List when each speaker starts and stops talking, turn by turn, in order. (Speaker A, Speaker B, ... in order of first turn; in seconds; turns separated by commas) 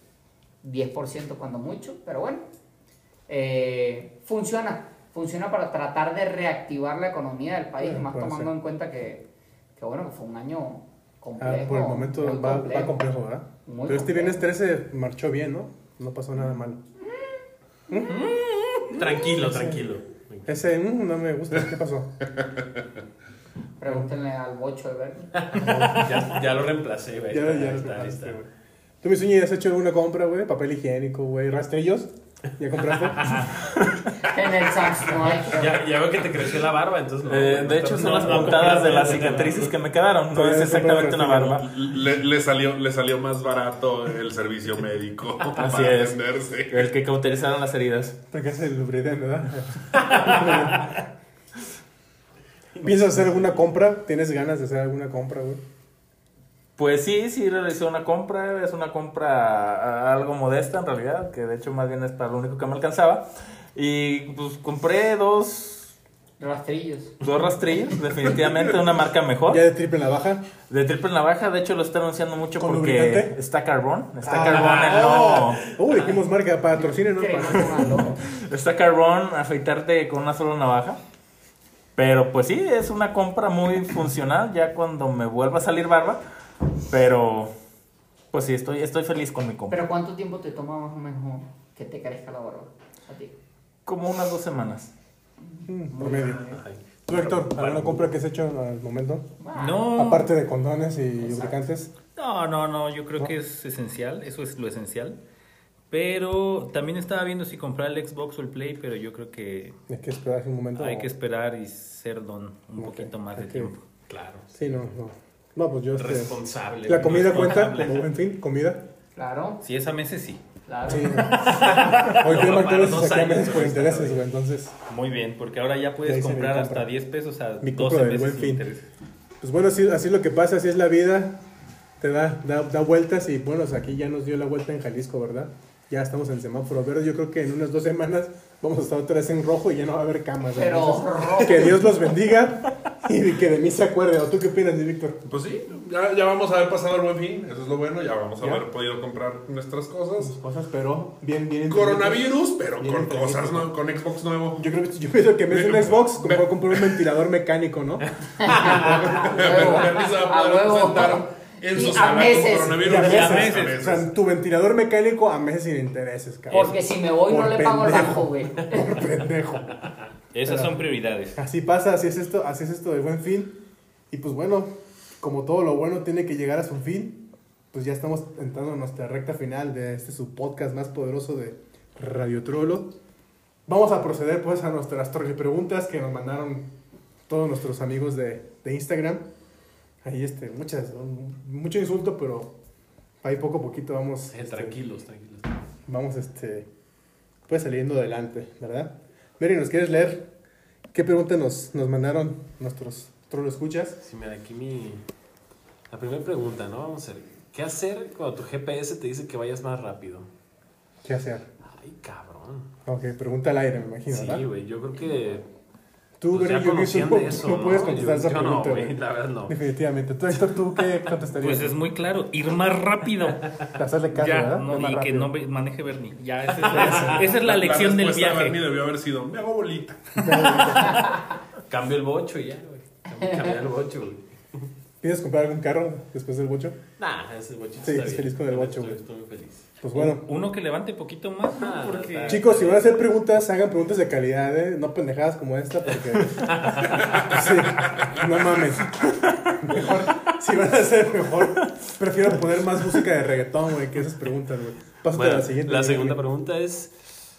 Speaker A: 0.6-2.5, Speaker A: 3.3-9.2, Speaker B: 7.8-8.5, Speaker A: 9.8-13.0, Speaker B: 11.4-16.8, Speaker A: 13.6-14.4, Speaker B: 17.9-18.2, Speaker C: 18.1-19.0, Speaker D: 18.9-20.5, Speaker B: 19.4-19.9, Speaker B: 20.4-22.1, Speaker E: 22.2-22.9, Speaker A: 23.8-25.3, Speaker D: 25.4-28.4, Speaker B: 25.5-26.2, Speaker B: 27.3-28.5, Speaker B: 29.0-33.4, Speaker D: 32.9-33.5, Speaker F: 33.8-34.0, Speaker A: 34.2-35.8, Speaker D: 35.5-39.7, Speaker F: 37.2-41.7, Speaker C: 38.2-39.2, Speaker B: 40.3-41.7, Speaker E: 41.6-46.9, Speaker F: 45.5-46.2, Speaker F: 46.7-48.2, Speaker B: 48.3-51.0, Speaker D: 52.8-53.4, Speaker B: 52.8-55.6, Speaker F: 56.8-65.9, Speaker A: 66.4-67.1, Speaker F: 67.2-69.6, Speaker B: 69.5-70.5, Speaker F: 70.7-75.6, Speaker B: 72.6-73.3, Speaker B: 74.2-78.2, Speaker D: 74.5-76.1, Speaker A: 77.1-78.2, Speaker F: 78.3-81.0, Speaker F: 82.0-86.2, Speaker F: 86.9-87.5, Speaker F: 88.3-89.8, Speaker A: 89.7-93.3, Speaker F: 93.8-94.9, Speaker A: 95.5-96.6, Speaker B: 95.7-99.3, Speaker D: 96.0-98.1, Speaker A: 99.4-99.9, Speaker C: 99.5-100.3, Speaker B: 99.9-101.9, Speaker A: 101.2-101.6, Speaker C: 102.2-105.2, Speaker C: 105.9-109.8, Speaker B: 109.9-111.1, Speaker C: 110.8-113.8, Speaker B: 112.8-113.7, Speaker D: 114.1-114.7, Speaker B: 114.5-118.8, Speaker D: 115.9-117.7, Speaker C: 117.0-118.0, Speaker A: 119.1-119.6, Speaker C: 119.6-120.4, Speaker A: 120.7-121.2, Speaker B: 120.8-124.7, Speaker D: 121.3-124.2, Speaker C: 121.8-122.1, Speaker C: 124.9-128.9, Speaker B: 126.0-126.9, Speaker B: 127.6-128.6, Speaker B: 129.4-131.4, Speaker B: 132.0-145.2, Speaker A: 140.5-141.8, Speaker E: 145.3-150.3, Speaker B: 148.4-148.6, Speaker B: 150.2-153.7, Speaker E: 151.7-154.7, Speaker B: 154.6-159.9, Speaker E: 155.5-157.0, Speaker A: 158.4-163.3, Speaker D: 158.4-159.0, Speaker E: 158.8-164.2, Speaker B: 162.8-169.8, Speaker C: 163.0-163.8, Speaker A: 166.5-169.0, Speaker C: 170.3-171.4, Speaker B: 170.4-170.8, Speaker B: 171.3-173.6, Speaker B: 174.1-182.9, Speaker B: 183.7-186.7, Speaker B: 187.3-189.3, Speaker B: 190.0-192.5, Speaker B: 193.2-194.8, Speaker D: 194.3-195.6, Speaker B: 195.9-196.7, Speaker B: 197.5-200.3, Speaker B: 200.9-204.0, Speaker D: 204.0-205.0, Speaker D: 205.9-210.3, Speaker B: 211.0-211.5, Speaker D: 211.6-212.7, Speaker B: 212.8-214.4, Speaker D: 214.1-215.4, Speaker B: 216.2-221.8, Speaker D: 216.3-219.6, Speaker D: 220.8-221.1, Speaker C: 221.3-228.6, Speaker B: 223.7-225.3, Speaker B: 226.6-227.3, Speaker E: 227.3-230.6, Speaker B: 230.2-231.1, Speaker A: 230.8-231.2, Speaker D: 231.7-234.6, Speaker A: 233.2-233.5, Speaker B: 235.0-236.8, Speaker D: 237.0-239.7, Speaker B: 237.8-239.0, Speaker B: 239.8-240.3, Speaker C: 239.9-242.5, Speaker D: 241.5-243.0, Speaker B: 242.3-256.2, Speaker D: 245.9-247.4, Speaker D: 255.1-257.2